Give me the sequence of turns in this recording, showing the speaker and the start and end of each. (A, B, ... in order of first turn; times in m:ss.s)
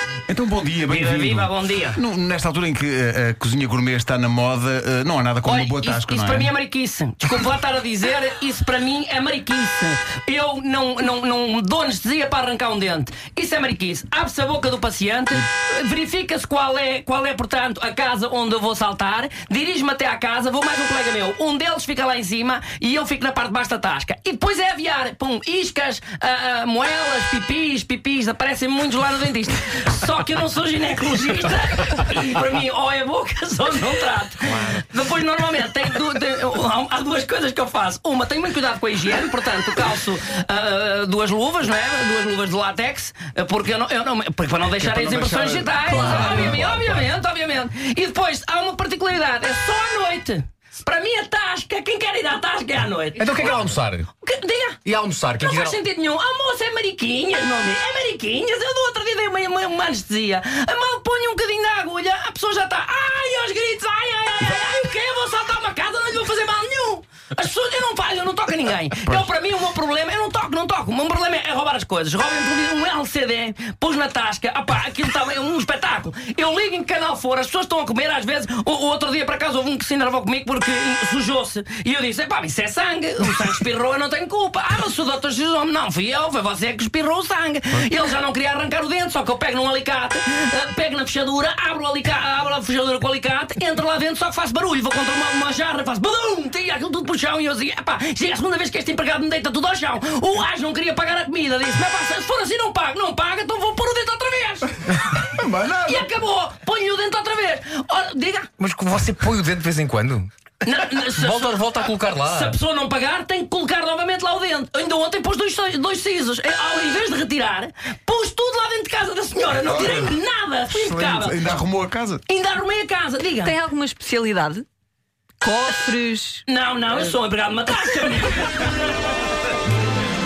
0:00.3-0:06.5 A
0:00.9-0:02.0 B
0:05.4-0:54.8 B
0:44.8-0:47.0 C
0:45.9-0:46.3 A
0:53.2-0:54.1 C
0:54.8-0:55.8 C
0:55.4-1:48.5 B
1:45.2-1:46.1 A
1:48.6-1:50.3 C
1:50.6-2:01.6 B
1:50.9-1:52.5 C
1:59.6-2:00.2 A
2:00.7-2:02.2 A
2:02.3-2:03.6 B
2:03.4-2:04.6 D
2:05.4-2:06.4 D
2:06.4-2:08.9 B